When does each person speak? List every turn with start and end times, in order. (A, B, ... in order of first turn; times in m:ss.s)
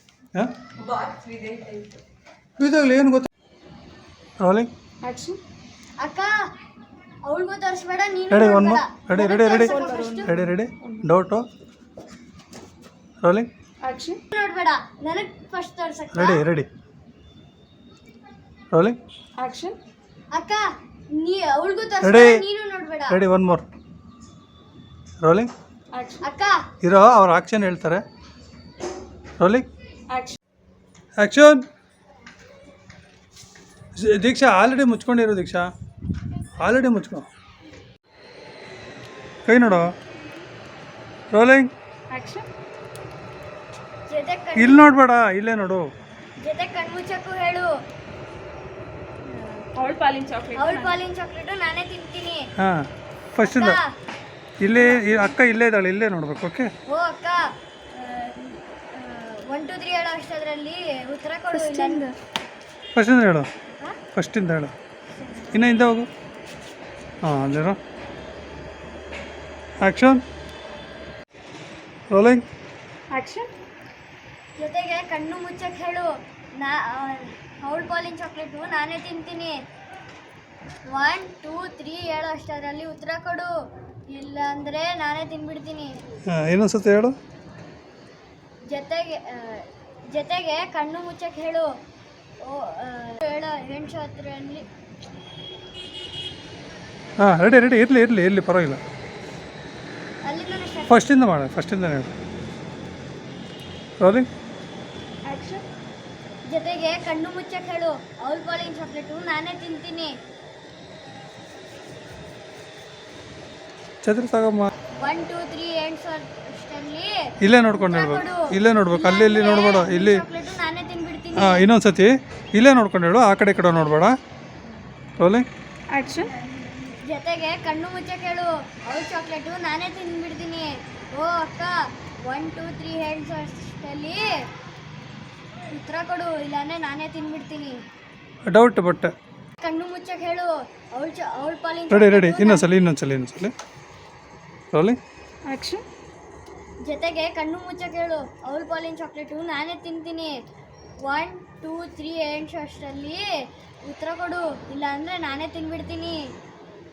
0:00.8-0:02.0 A
0:02.6-0:03.3 B
0:04.4-0:04.7 B
0:05.0-0:05.4 A
0:06.0-0:06.3 C
0:07.2-0:10.3 C
0:08.3-0:09.7 B
0:09.3-0:11.0 A
0:10.2-0:11.5 B
0:13.2-0:13.5 B
0:13.8-0:14.2 A
0:14.3-0:16.4 C
0:16.1-0:16.7 B
0:18.7-0:19.0 B
0:19.4-0:19.8 A
0:20.3-0:20.6 C
0:21.2-0:23.2 C
0:22.0-0:22.4 B
0:23.1-0:23.6 B
0:25.2-0:25.5 B
0:25.9-0:26.2 A
0:26.2-0:26.6 C
0:26.8-0:28.0 B
0:29.4-0:29.6 B
0:30.1-0:30.4 A
0:31.2-0:31.6 B
0:34.0-0:35.7 B
0:36.6-0:37.3 B
0:39.4-0:39.9 B
0:41.3-0:41.7 B
0:42.1-0:42.5 A
0:44.1-0:44.9 C
0:44.6-0:45.9 B
0:46.4-0:47.7 C
0:49.6-0:51.0 A
0:50.5-0:52.5 C
0:52.6-0:53.8 B
0:53.4-0:53.9 C
0:54.6-0:56.7 B
0:56.9-1:02.0 C
1:01.5-1:02.1 A
1:02.9-1:03.5 B
1:04.1-1:04.7 B
1:05.3-1:05.6 C
1:05.5-1:06.1 B
1:07.2-1:07.8 B
1:09.8-1:10.2 B
1:12.1-1:12.4 B
1:13.1-1:13.5 A
1:14.6-1:16.1 C
1:16.6-1:19.5 C
1:20.9-1:23.5 C
1:24.1-1:25.9 C
1:26.3-1:27.2 B
1:28.7-1:31.7 C
1:32.4-1:34.6 C
1:37.2-1:38.8 B
1:40.2-1:41.0 C
1:40.9-1:42.1 B
1:44.0-1:44.3 B
1:45.2-1:45.6 A
1:46.5-1:50.1 C
1:54.0-1:54.7 B
1:55.0-1:57.1 C
1:57.4-2:00.2 B
1:57.7-2:01.6 C
2:01.3-2:04.1 B
2:05.2-2:05.4 B
2:05.9-2:06.3 A
2:07.0-2:11.7 C
2:12.3-2:14.4 C
2:15.7-2:17.8 C
2:18.5-2:19.1 B
2:19.6-2:22.7 C
2:21.9-2:23.5 B
2:24.7-2:25.0 B
2:25.5-2:25.8 A
2:26.8-2:30.3 C
2:31.0-2:33.2 C
2:33.8-2:36.2 C